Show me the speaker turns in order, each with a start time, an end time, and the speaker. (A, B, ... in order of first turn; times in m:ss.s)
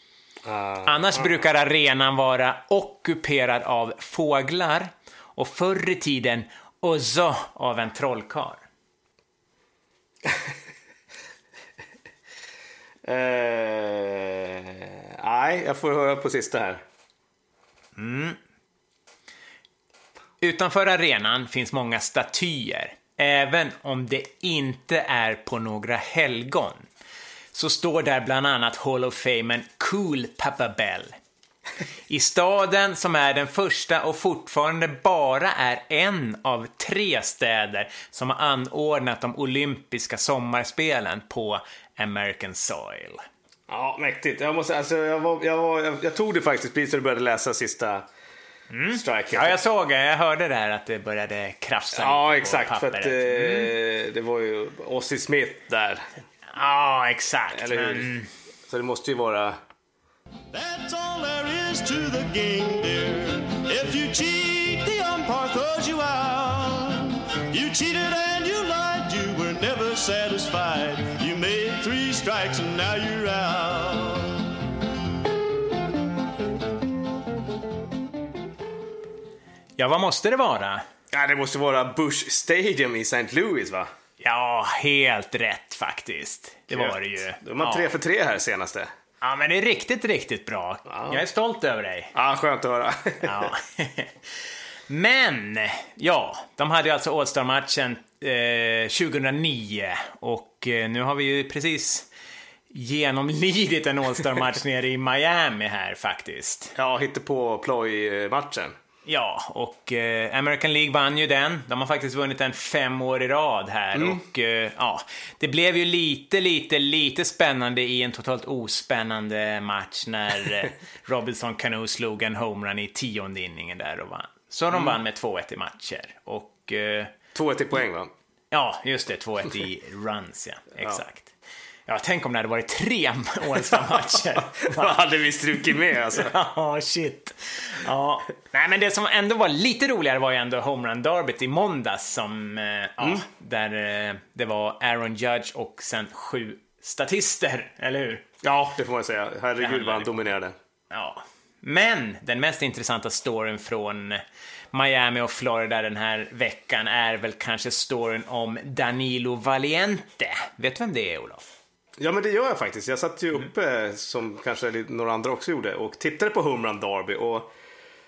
0:00.4-0:01.4 A
0:00.8-0:08.6 B
0:10.2-0:10.5 A
0:13.0-0:16.8 A
0:18.0-0:18.4 B
0:20.4-0:26.9 B
0:27.5-0:31.1 B
0:32.1-0:43.2 B
0:43.7-0:48.1 A
0:48.7-0:53.7 B
0:48.9-0:49.6 A
0:51.9-0:56.1 A
0:56.5-0:58.3 B
0:57.5-0:58.1 A
0:58.7-0:59.6 A
1:00.5-1:14.5 C
1:19.8-1:20.8 B
1:21.1-1:23.9 A
1:24.2-1:27.9 B
1:26.7-1:28.9 A
1:29.2-1:32.1 B
1:30.9-1:31.2 A
1:32.1-1:33.5 A
1:33.2-1:34.1 B
1:34.9-1:42.1 B
1:42.7-1:46.7 B
1:46.8-1:48.7 A
1:49.1-2:07.1 B
1:53.9-1:54.2 A
2:07.3-2:08.1 A
2:08.5-2:11.3 B
2:11.9-2:15.0 B
2:14.6-2:16.4 A
2:16.1-2:28.2 B
2:28.4-2:30.6 A
2:29.6-2:30.2 B
2:30.9-2:41.4 B
2:42.0-2:47.5 A